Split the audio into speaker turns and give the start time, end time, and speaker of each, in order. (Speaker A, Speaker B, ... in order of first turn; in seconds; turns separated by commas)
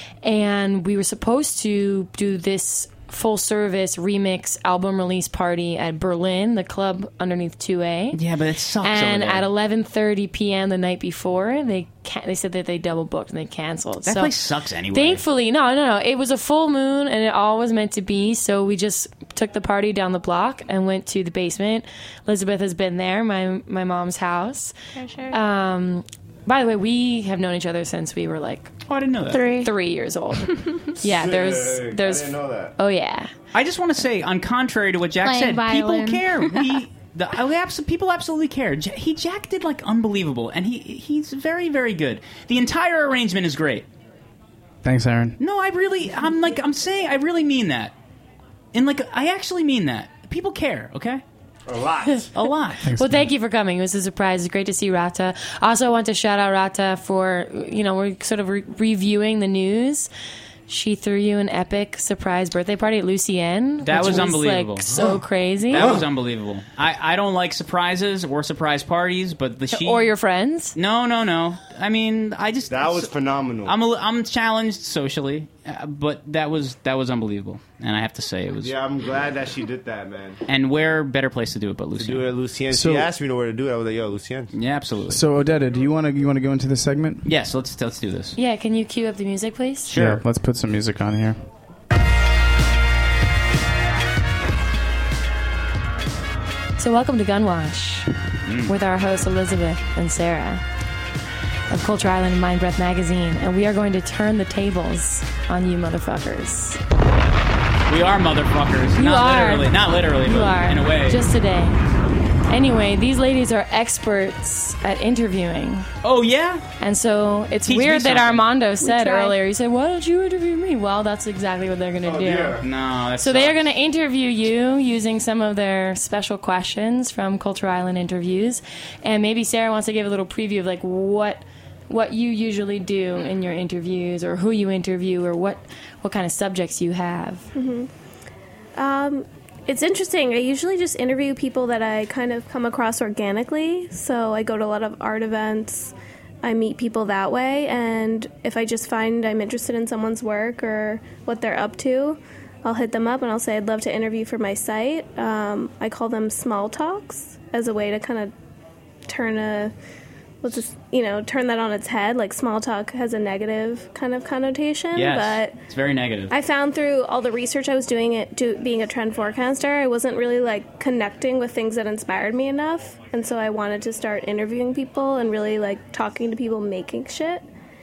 Speaker A: 0.2-8.2, Speaker B: 8.1-9.5, Speaker A: 8.8-14.3, Speaker B: 14.0-15.2, Speaker A: 14.9-24.7, Speaker C: 24.9-25.4, Speaker A: 25.3-28.7, Speaker B: 28.9-29.5, Speaker C: 29.3-29.7, Speaker A: 29.6-30.5, Speaker A: 31.0-33.3, Speaker D: 31.1-32.7, Speaker B: 33.5-43.9, Speaker C: 35.2-36.8, Speaker E: 44.8-45.4, Speaker B: 45.4-47.9, Speaker B: 48.7-51.2, Speaker D: 51.7-52.3, Speaker B: 52.3-52.9, Speaker E: 52.8-53.2, Speaker A: 52.9-60.1, Speaker A: 60.7-66.0, Speaker B: 63.8-65.1, Speaker B: 65.7-70.1, Speaker D: 65.7-66.0, Speaker A: 69.7-70.8, Speaker B: 70.8-73.1, Speaker D: 72.7-73.7, Speaker B: 73.6-78.7, Speaker D: 78.6-80.4, Speaker B: 80.5-82.3, Speaker D: 82.0-84.5, Speaker E: 82.7-83.1, Speaker B: 84.5-85.2, Speaker E: 85.1-87.2, Speaker B: 87.2-88.4, Speaker A: 88.3-89.9, Speaker B: 89.9-90.2, Speaker E: 89.9-91.4, Speaker A: 96.8-98.1, Speaker B: 98.5-98.7, Speaker A: 98.7-100.6, Speaker A: 101.7-106.8, Speaker B: 107.9-111.2, Speaker A: 109.0-111.8, Speaker A: 112.5-115.9, Speaker B: 116.0-116.6, Speaker A: 116.8-122.6, Speaker B: 117.6-118.5, Speaker F: 118.8-119.4, Speaker D: 122.0-122.6, Speaker B: 122.6-123.6, Speaker A: 123.2-137.5, Speaker F: 137.5-137.9, Speaker F: 138.8-158.3, Speaker F: 159.1-159.7, Speaker F: 160.4-165.5, Speaker B: 164.9-166.3, Speaker F: 166.3-177.4